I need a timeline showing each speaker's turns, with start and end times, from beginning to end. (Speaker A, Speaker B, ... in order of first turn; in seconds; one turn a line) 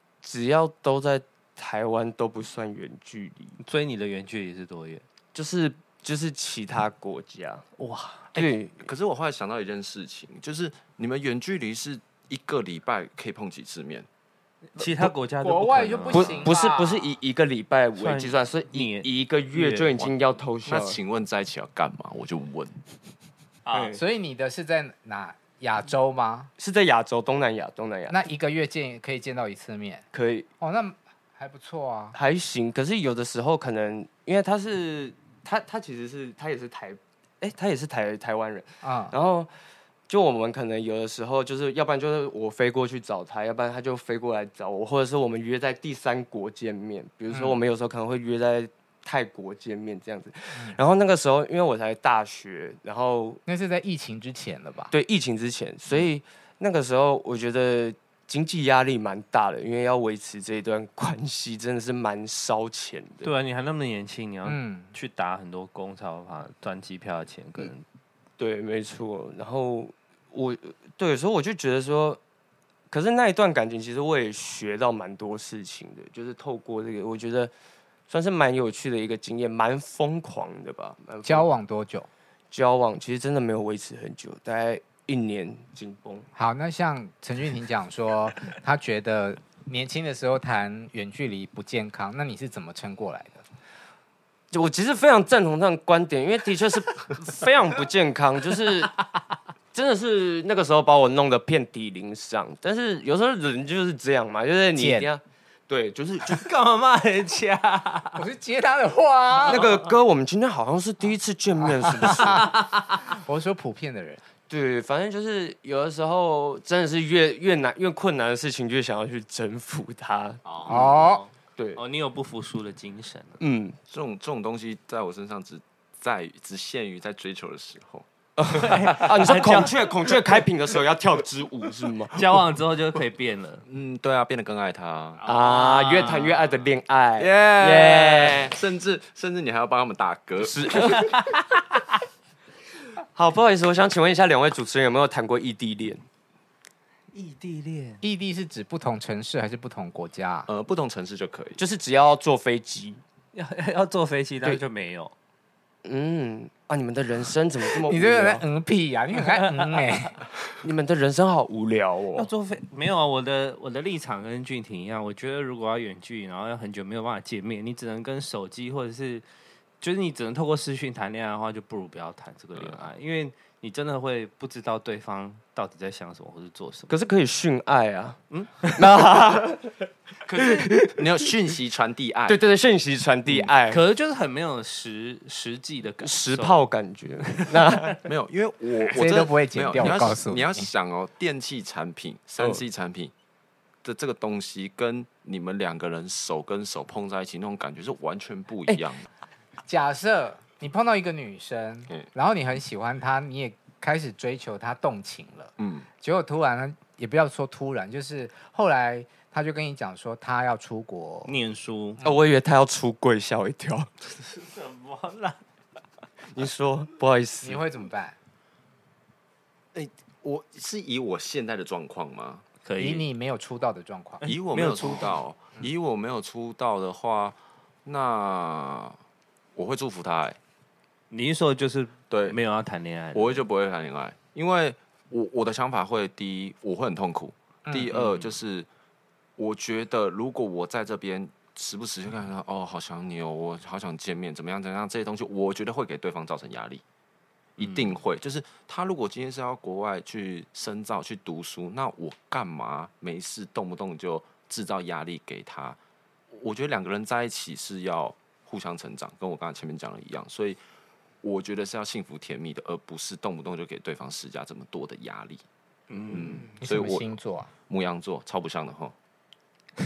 Speaker A: 0.2-3.6
Speaker B: 3.6-5.0
Speaker A: 5.3-7.7
Speaker B: 7.8-8.3
Speaker A: 8.3-8.9
Speaker C: 8.3-14.1
Speaker B: 14.7-16.5
Speaker D: 15.4-17.1
Speaker A: 16.1-21.0
Speaker B: 18.0-19.9
Speaker C: 20.6-22.8
Speaker A: 23.7-24.0
Speaker D: 23.9-26.5
Speaker A: 26.6-28.2
Speaker D: 28.1-30.1
Speaker A: 30.1-30.5
Speaker D: 30.6-32.2
Speaker A: 32.1-39.5
Speaker D: 38.8-39.1
Speaker A: 40.1-53.4
Speaker D: 47.3-47.6
Speaker D: 53.5-54.9
Speaker A: 54.9-63.3
Speaker B: 63.2-67.8
Speaker D: 64.4-64.9
Speaker A: 68.4-72.2
Speaker A: 72.9-77.5
Speaker A: 78.1-81.5
Speaker D: 81.2-82.1
Speaker A: 82.5-86.3
Speaker D: 86.3-93.4
Speaker A: 94.5-99.0
Speaker A: 99.7-106.5
Speaker D: 104.8-105.1
Speaker B: 106.3-108.2
Speaker D: 108.1-109.7
Speaker A: 109.4-112.5
Speaker D: 111.9-114.2
Speaker B: 112.6-113.0
Speaker A: 114.5-120.9
Speaker C: 120.5-120.8
Speaker B: 120.6-123.4
Speaker D: 120.7-121.2
Speaker A: 123.4-123.8
Speaker C: 123.9-128.1
Speaker A: 128.4-132.2
Speaker B: 128.5-129.8
Speaker C: 128.6-129.5
Speaker B: 132.1-133.6
Speaker C: 133.7-135.2
Speaker B: 135.2-136.3
Speaker A: 135.2-138.5
Speaker C: 137.2-141.3
Speaker A: 140.4-141.1
Speaker B: 141.1-141.3
Speaker A: 143.1-146.0
Speaker B: 147.1-148.0
Speaker D: 148.0-150.5
Speaker C: 150.5-151.6
Speaker A: 151.6-153.0
Speaker B: 153.3-155.1
Speaker A: 155.8-158.4
Speaker D: 157.8-160.2
Speaker A: 160.6-162.3
Speaker B: 162.1-169.2
Speaker B: 169.8-176.9
Speaker C: 172.5-172.9
Speaker A: 176.9-179.8
Speaker B: 178.3-178.9
Speaker B: 180.3-180.7
Speaker A: 180.3-181.0
Speaker C: 180.9-182.4
Speaker A: 182.3-183.8
Speaker B: 183.7-186.6
Speaker A: 186.0-188.1
Speaker B: 187.2-187.9
Speaker C: 188.1-193.1
Speaker D: 188.9-190.7
Speaker C: 193.8-199.1
Speaker D: 199.6-211.3
Speaker C: 205.6-205.9
Speaker B: 211.3-212.0
Speaker A: 212.0-213.9
Speaker B: 214.2-215.4
Speaker A: 216.3-217.6
Speaker D: 217.4-218.2
Speaker C: 219.7-222.4
Speaker B: 222.6-223.1
Speaker D: 222.8-224.2
Speaker B: 224.2-225.2
Speaker C: 224.2-229.0
Speaker C: 229.6-230.4
Speaker B: 231.1-233.4
Speaker C: 232.1-232.4
Speaker C: 233.1-238.7
Speaker D: 237.7-237.9
Speaker B: 237.9-238.2
Speaker C: 239.4-246.8
Speaker C: 247.6-255.8
Speaker B: 247.6-247.9
Speaker C: 256.3-260.6
Speaker C: 261.2-265.4
Speaker B: 265.9-266.3
Speaker C: 266.1-268.9
Speaker D: 266.6-267.5